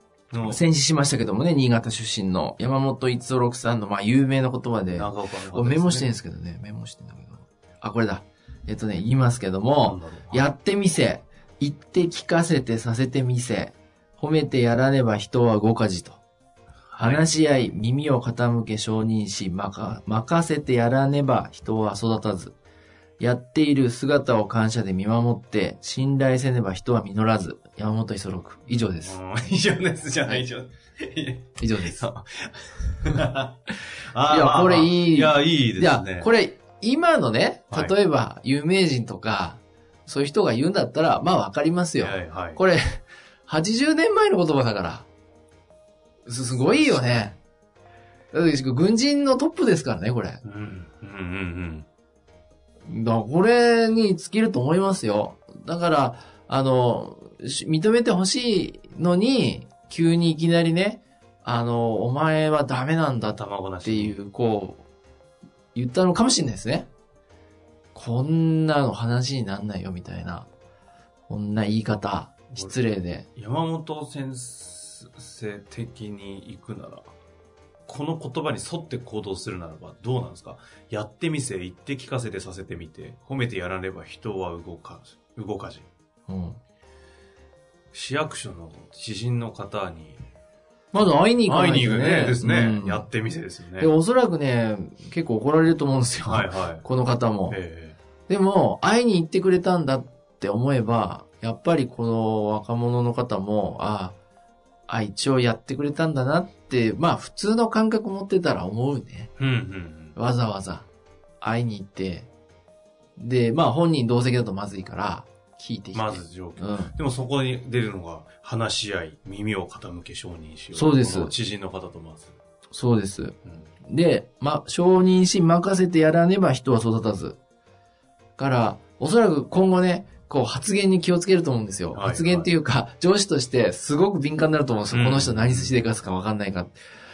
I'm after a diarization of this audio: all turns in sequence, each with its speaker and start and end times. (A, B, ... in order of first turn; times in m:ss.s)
0:00.3-0:00.6 A
0:00.4-0:16.2 B
0:04.9-0:06.1 A
0:09.8-0:10.4 A
0:16.9-0:17.2 A
0:17.0-0:22.5 B
0:23.2-0:29.2 B
0:29.0-0:33.6 A
0:31.6-0:32.1 B
0:34.1-0:36.3 A
0:34.2-0:45.1 B
0:37.7-0:37.9 A
0:42.0-0:42.6 A
0:46.2-0:47.3 B
0:46.5-0:47.3 A
0:48.3-0:50.4 B
0:50.4-0:51.9 A
0:52.8-1:04.8 B
1:03.3-1:04.2 A
1:05.7-1:06.9 B
1:07.9-1:10.5 B
1:11.3-1:13.3 B
1:13.4-1:17.1 A
1:17.9-1:25.9 A
1:26.3-1:26.6 B
1:27.9-1:30.2 A
1:30.9-1:33.1 B
1:31.4-1:33.9 A
1:33.8-1:37.6 B
1:36.2-1:36.8 A
1:37.5-1:38.0 A
1:38.3-1:44.2 B
1:44.9-1:49.3 B
1:49.4-1:50.2 A
1:50.2-1:50.9 B
1:51.4-1:52.3 B
1:53.2-1:56.9 B
1:55.9-2:02.4 A
2:00.7-2:01.3 B
2:02.7-2:07.4 B
2:03.4-2:03.7 A
2:08.4-2:16.7 B
2:11.9-2:12.5 A
2:14.9-2:15.8 A